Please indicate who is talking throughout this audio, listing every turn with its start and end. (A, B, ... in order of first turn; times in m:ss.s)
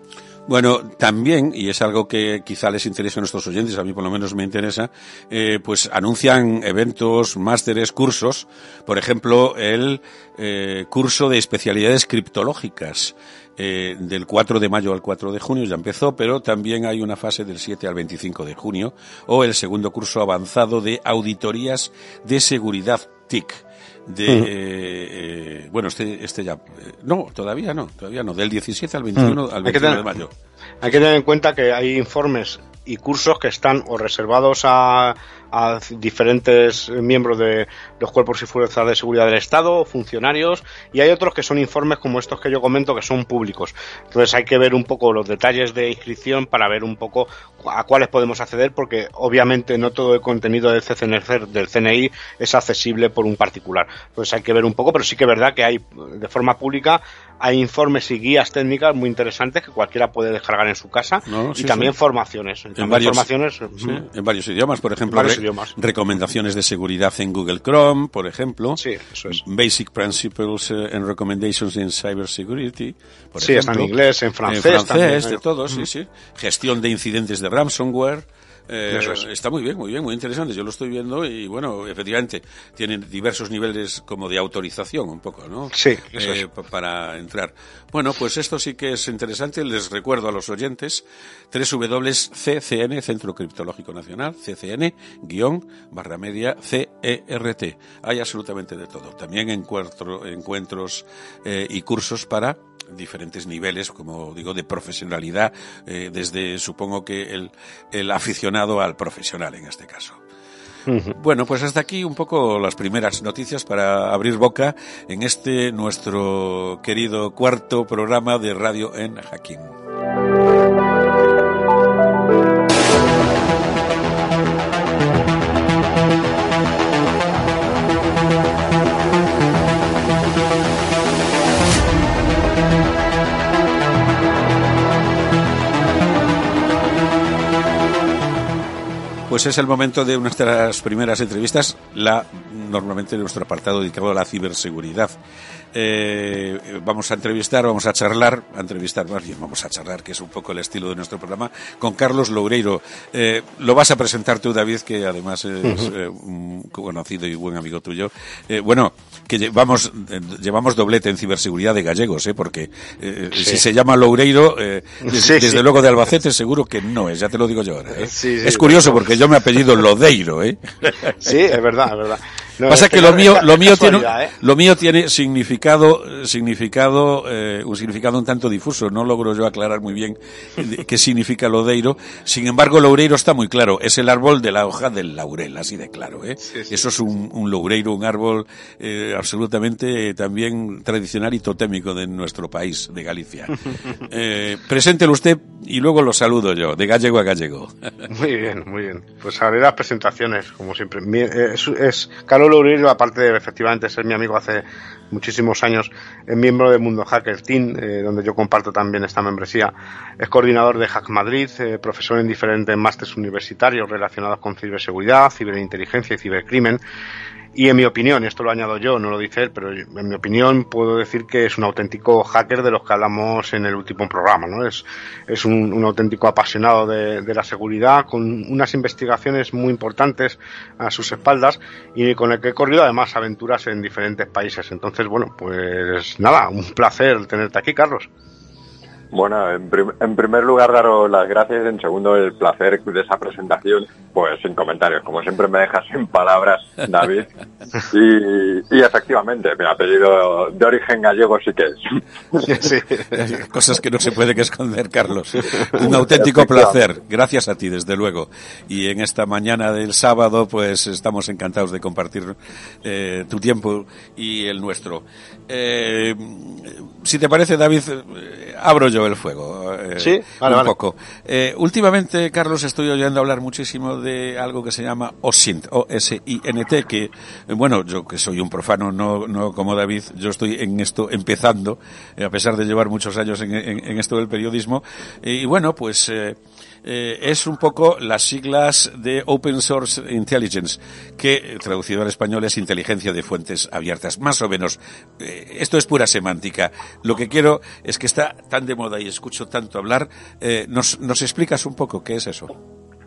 0:00.5-0:30.3 A
0:29.2-0:30.0 B
0:30.8-1:04.0 B
1:01.3-1:01.9 A
1:02.8-1:13.9 A
1:05.1-1:05.7 B
1:08.8-1:09.4 B
1:13.4-1:15.9 B
1:14.5-1:50.2 A
1:18.9-1:19.2 B
1:25.7-1:26.4 B
1:50.9-1:51.2 B
1:51.1-1:59.7 A
2:19.3-2:25.2 A
2:25.7-2:51.3 A
2:43.3-2:43.6 B
2:45.1-2:45.7 B
2:48.0-2:49.2 B
2:51.2-2:54.3 B
2:52.7-3:18.1 A
3:18.1-3:36.8 B
3:37.6-3:58.1 B
3:59.1-4:07.3 C
4:07.8-4:12.5 C
4:12.5-4:13.3 B
4:13.1-5:02.5 A
4:15.7-4:16.6 B
4:30.0-4:30.7 B